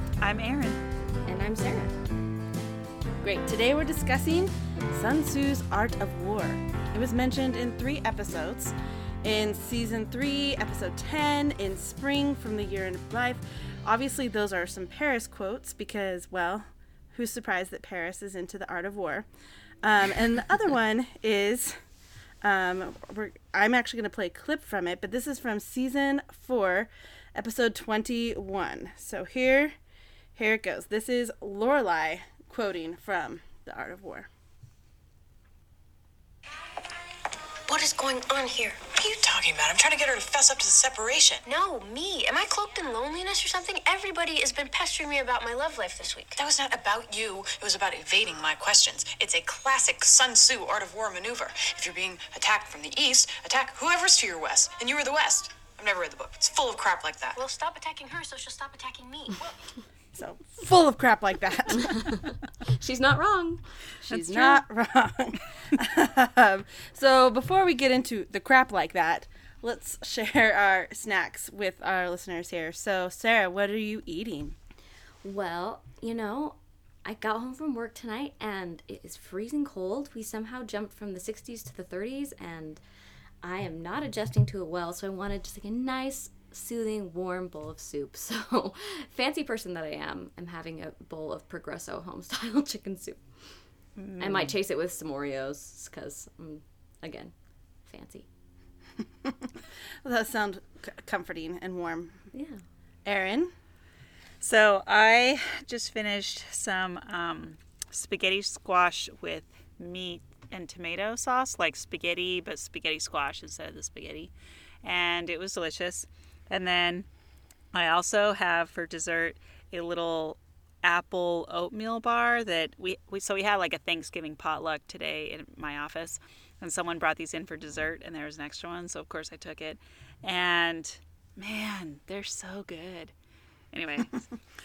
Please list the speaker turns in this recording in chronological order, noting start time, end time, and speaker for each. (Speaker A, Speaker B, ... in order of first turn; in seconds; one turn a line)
Speaker A: 0.2-0.8
Speaker B: 1.3-1.9
Speaker C: 3.2-19.3
Speaker C: 19.8-21.8
Speaker C: 22.4-29.8
Speaker C: 30.4-34.3
Speaker D: 37.7-38.9
Speaker E: 38.8-41.4
Speaker D: 41.5-46.4
Speaker E: 46.4-57.4
Speaker D: 57.4-59.6
Speaker C: 60.1-62.0
Speaker B: 61.9-63.6
Speaker C: 64.0-74.6
Speaker A: 64.1-64.6
Speaker B: 75.2-82.8
Speaker B: 83.4-93.2
Speaker A: 94.0-94.5
Speaker B: 94.2-97.3
Speaker B: 97.9-98.3
Speaker C: 99.2-102.3
Speaker B: 102.3-102.6
Speaker C: 103.0-103.5
Speaker A: 104.4-114.3
Speaker A: 114.8-117.1
Speaker A: 117.7-133.1
Speaker A: 133.7-134.3